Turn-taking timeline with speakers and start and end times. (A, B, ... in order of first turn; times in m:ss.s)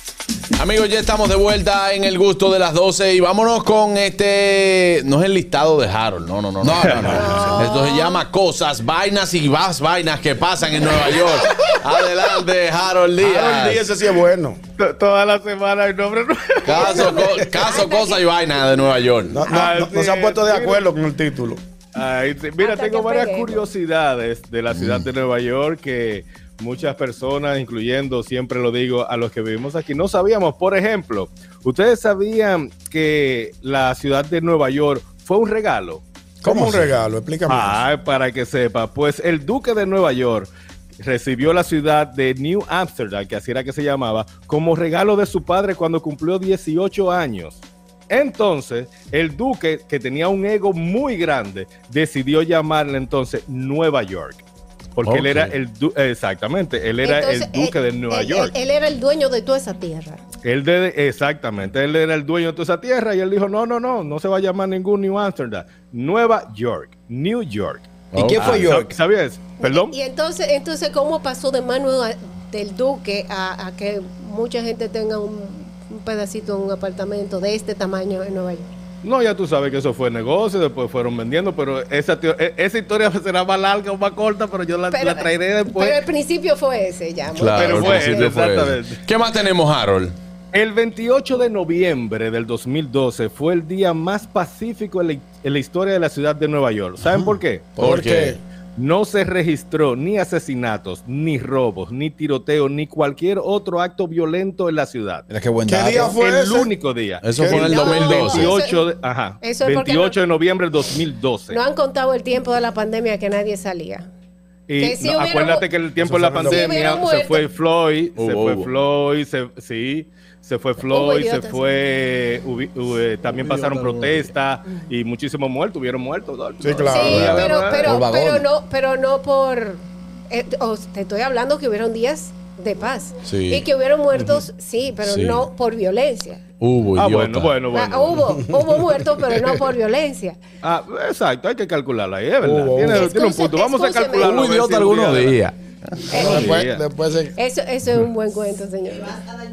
0:00.5-0:13.9 A
0:06.6-0:07.7 B
0:06.9-0:07.2 C
0:07.1-0:08.2 D
0:13.2-0:14.6 E
0:14.8-0:17.1 C
0:16.6-0:19.4 A
0:16.7-0:18.2 D
0:17.0-0:17.3 E
0:19.3-0:21.6 E
0:19.5-0:20.9 C
0:22.0-0:36.0 C
0:22.6-0:23.6 D
0:24.7-0:25.1 B
0:36.4-0:37.8 E
0:36.4-0:36.9 B
0:37.5-0:54.4 C
0:55.0-0:58.5 C
0:55.0-0:55.5 A
0:57.0-1:00.2 D
1:00.4-1:09.9 C
1:08.1-1:08.9 B
1:08.2-1:08.7 A
1:09.6-1:18.6 D
1:19.0-1:26.0 C
1:24.9-1:28.3 D
1:27.4-1:30.2 A
1:27.6-1:29.0 C
1:30.5-1:37.8 C
1:37.8-1:38.4 E
1:37.8-1:38.4 A
1:38.8-1:45.2 C
1:45.3-1:46.2 B
1:45.7-1:46.8 E
1:46.0-1:51.6 C
1:47.2-1:48.5 A
1:47.3-1:47.8 E
1:47.4-1:48.8 D
1:49.4-1:50.2 D
1:51.5-1:54.1 D
1:54.7-2:07.9 C
1:54.8-1:55.7 D
1:56.0-1:56.7 E
1:56.4-1:57.4 D
1:58.2-1:58.7 A
2:00.9-2:01.6 D
2:03.4-2:04.3 A
2:06.6-2:07.6 E
2:06.9-2:16.4 D
2:07.1-2:07.5 A
2:07.8-2:08.5 B
2:13.2-2:13.6 A
2:14.1-2:14.4 C
2:15.0-2:15.4 A
2:16.6-2:17.6 A
2:17.0-2:18.2 C
2:17.7-2:20.4 D
2:20.6-2:25.4 C
2:22.4-2:23.0 E
2:22.8-2:24.4 D
2:24.2-2:26.2 A
2:26.1-2:26.5 D
2:26.1-2:27.3 E
2:26.2-2:26.8 C
2:27.3-2:29.2 D